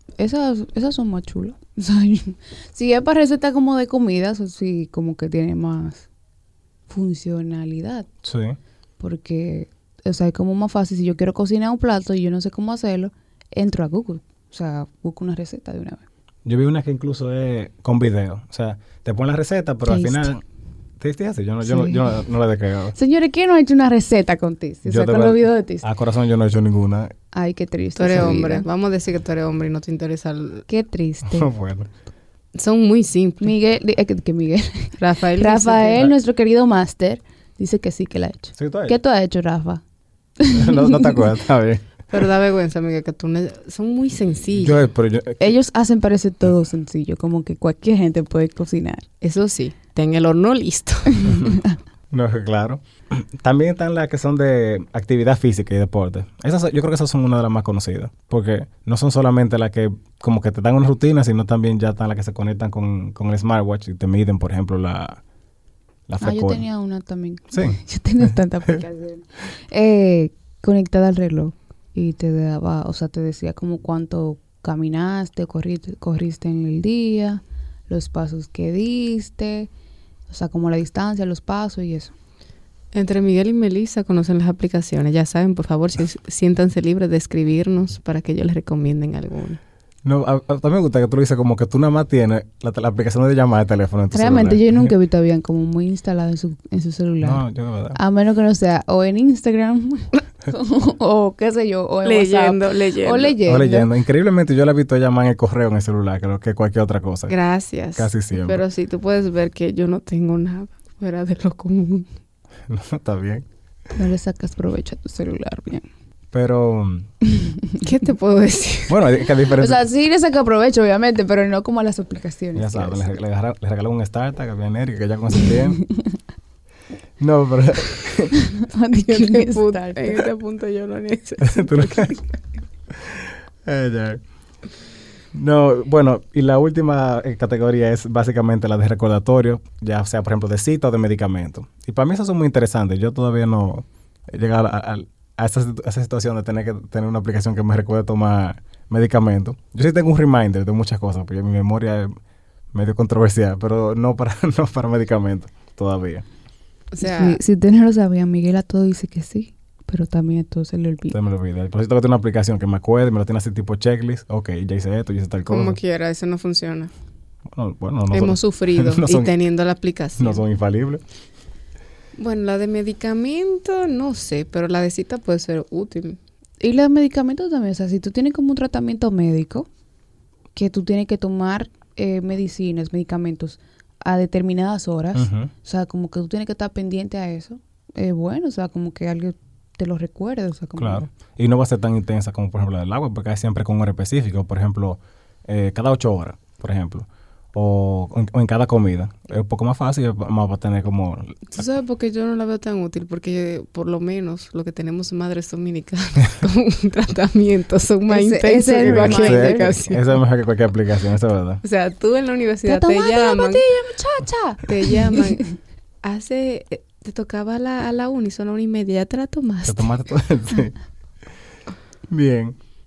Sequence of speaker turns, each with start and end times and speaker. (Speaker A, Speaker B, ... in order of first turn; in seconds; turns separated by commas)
Speaker A: 0.2-6.1, Speaker A: 6.9-8.1, Speaker B: 8.2-8.6, Speaker A: 9.0-16.0, Speaker B: 16.4-20.4, Speaker A: 19.9-20.3, Speaker B: 21.0-22.9, Speaker A: 21.6-22.2, Speaker A: 22.9-25.9, Speaker B: 24.9-27.1, Speaker A: 27.3-28.6, Speaker C: 27.9-30.6, Speaker A: 30.7-31.5, Speaker B: 31.3-31.9, Speaker C: 32.5-33.5, Speaker A: 33.4-39.8, Speaker C: 35.0-36.1, Speaker B: 38.5-39.0, Speaker A: 40.4-41.3, Speaker B: 40.5-41.9, Speaker C: 42.1-44.8, Speaker B: 44.5-45.5, Speaker A: 45.4-49.1, Speaker C: 49.2-51.5, Speaker A: 51.2-51.7, Speaker B: 52.1-65.2, Speaker B: 66.1-66.7, Speaker A: 66.2-79.7, Speaker A: 80.3-82.1, Speaker C: 82.9-89.6, Speaker B: 90.0-94.9, Speaker A: 94.1-97.4, Speaker B: 97.2-98.0, Speaker A: 97.9-103.9, Speaker C: 102.0-103.4, Speaker B: 103.4-107.3, Speaker C: 107.3-112.1, Speaker B: 108.0-108.6, Speaker B: 112.7-113.5, Speaker A: 113.9-115.8, Speaker B: 116.3-117.1, Speaker C: 117.8-119.0, Speaker B: 118.9-119.8, Speaker A: 119.6-123.0, Speaker B: 122.5-125.8, Speaker B: 127.2-128.3, Speaker A: 128.6-130.3, Speaker C: 129.0-132.3, Speaker B: 131.4-132.1, Speaker B: 132.9-134.2, Speaker B: 135.3-152.1, Speaker B: 152.7-156.2, Speaker C: 156.9-157.4, Speaker A: 157.0-161.2, Speaker B: 161.1-165.8, Speaker C: 165.4-166.9, Speaker B: 167.5-169.4, Speaker C: 168.1-170.4, Speaker B: 170.2-171.0, Speaker C: 172.2-176.2, Speaker A: 176.6-179.7, Speaker A: 180.5-191.1, Speaker B: 185.1-185.5, Speaker B: 190.8-201.6, Speaker C: 201.5-210.0, Speaker A: 208.1-209.8, Speaker B: 208.8-211.6, Speaker C: 211.6-213.7, Speaker A: 212.7-215.4, Speaker C: 214.6-215.5, Speaker C: 216.0-219.9, Speaker B: 219.6-220.7, Speaker B: 222.1-222.6